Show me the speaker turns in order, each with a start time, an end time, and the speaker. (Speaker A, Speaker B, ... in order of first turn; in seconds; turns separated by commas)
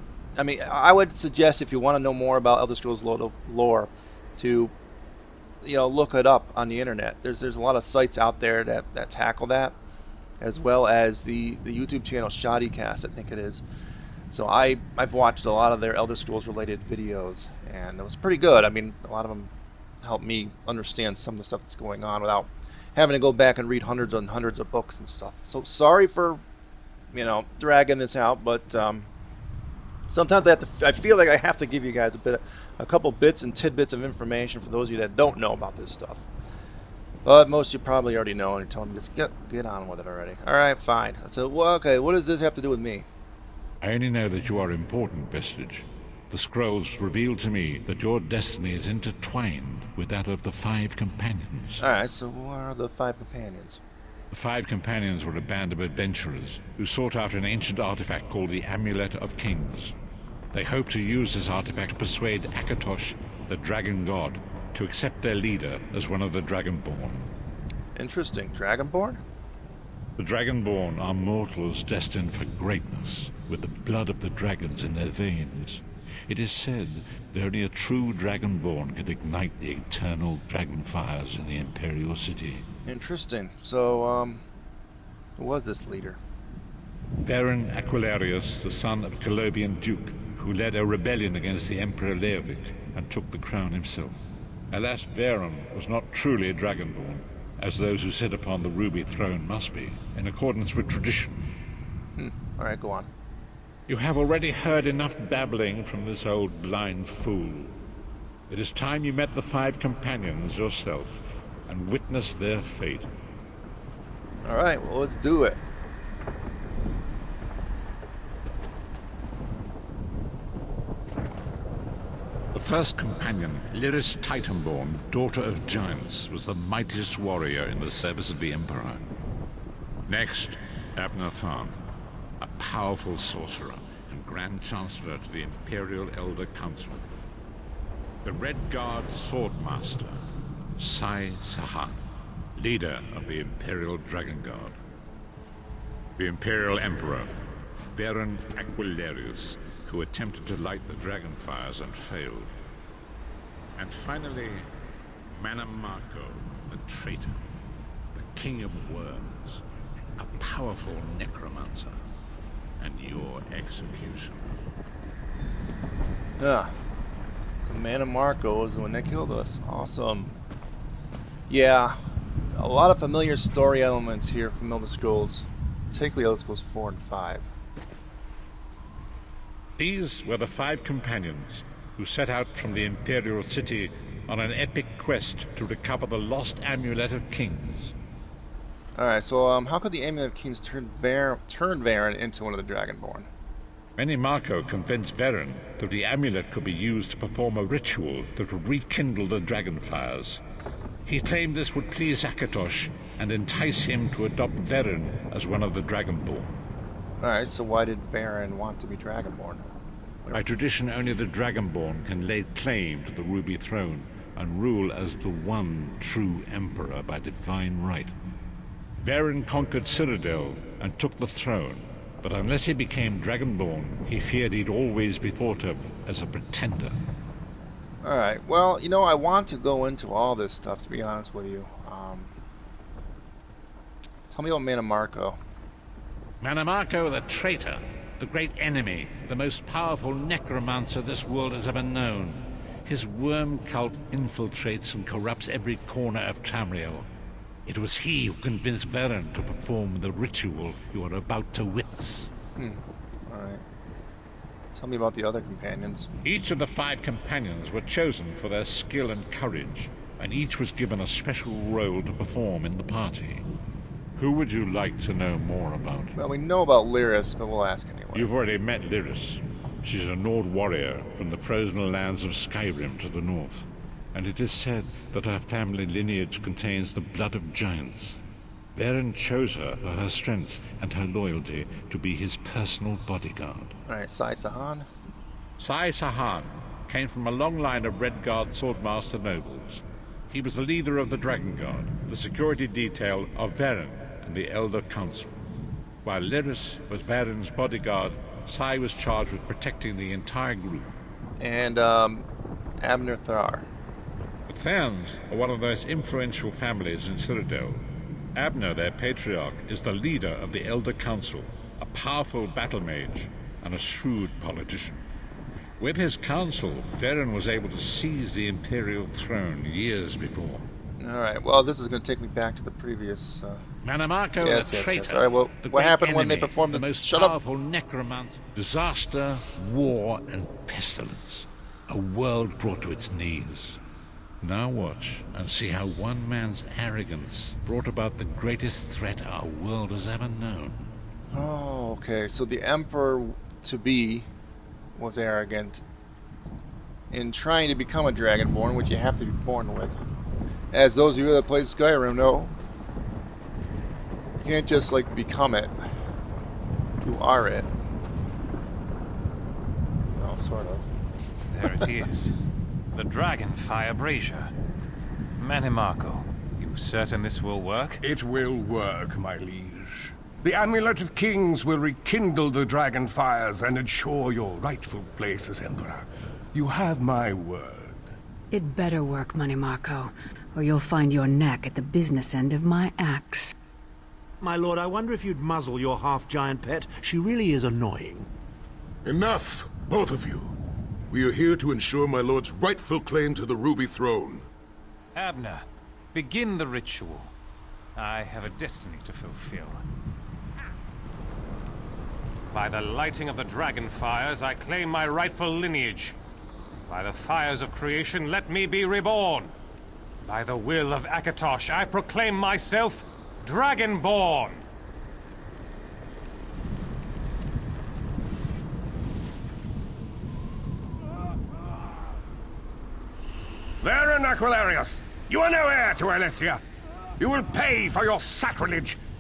Speaker A: 0.4-4.7, Speaker A: 5.6-9.8, Speaker A: 10.4-13.6, Speaker A: 14.3-19.5, Speaker A: 20.0-26.4, Speaker A: 27.1-29.1, Speaker A: 30.1-36.2, Speaker A: 37.2-43.1, Speaker B: 43.8-51.8, Speaker A: 51.8-53.8, Speaker B: 54.3-60.0, Speaker B: 60.5-67.3, Speaker A: 68.0-69.2, Speaker B: 70.2-82.7, Speaker A: 82.8-84.4, Speaker A: 85.4-86.2, Speaker B: 87.2-101.4, Speaker A: 102.2-103.1, Speaker B: 103.9-107.7, Speaker B: 108.5-113.1, Speaker A: 114.4-115.6, Speaker B: 122.5-129.0, Speaker B: 130.1-131.8, Speaker B: 132.4-137.1, Speaker B: 138.2-140.2, Speaker B: 140.8-142.0, Speaker B: 142.6-144.8, Speaker B: 146.2-147.3, Speaker B: 147.9-152.5, Speaker B: 153.8-154.7, Speaker B: 155.3-157.4, Speaker B: 158.1-159.6, Speaker B: 160.2-162.0, Speaker B: 162.8-164.6, Speaker A: 166.4-166.7, Speaker A: 167.6-170.3, Speaker A: 171.5-177.5, Speaker B: 179.8-187.9, Speaker A: 189.0-193.3, Speaker B: 194.0-200.4, Speaker B: 201.1-206.5, Speaker A: 207.2-209.6, Speaker B: 210.3-218.1, Speaker B: 219.0-227.0, Speaker A: 228.0-232.3, Speaker A: 234.3-235.4, Speaker B: 236.4-247.1, Speaker B: 247.7-252.3, Speaker A: 252.6-253.6, Speaker A: 254.7-256.1, Speaker B: 256.2-263.5, Speaker B: 264.2-266.1, Speaker A: 266.1-268.3, Speaker B: 268.1-278.2, Speaker B: 278.8-283.8, Speaker A: 283.9-284.9, Speaker B: 285.6-295.3, Speaker B: 296.0-300.9, Speaker A: 301.4-302.3, Speaker A: 302.8-303.7, Speaker B: 304.5-315.0, Speaker B: 315.8-320.7, Speaker A: 321.0-323.6, Speaker B: 323.8-333.8, Speaker A: 324.4-327.4, Speaker B: 334.4-340.9, Speaker A: 341.3-344.3, Speaker A: 344.9-345.8, Speaker A: 347.1-350.0, Speaker A: 350.7-352.6, Speaker A: 354.4-355.8, Speaker A: 357.0-357.7, Speaker A: 360.1-360.9, Speaker C: 361.5-362.3, Speaker C: 362.9-364.5, Speaker C: 365.4-368.0, Speaker D: 368.0-378.1, Speaker E: 378.5-383.5, Speaker F: 384.4-388.3, Speaker G: 389.1-390.5, Speaker G: 391.1-394.5, Speaker C: 395.1-397.3, Speaker C: 398.0-399.8, Speaker C: 402.5-406.2, Speaker C: 406.9-409.5, Speaker C: 410.2-414.6, Speaker D: 423.8-426.6, Speaker D: 427.2-429.0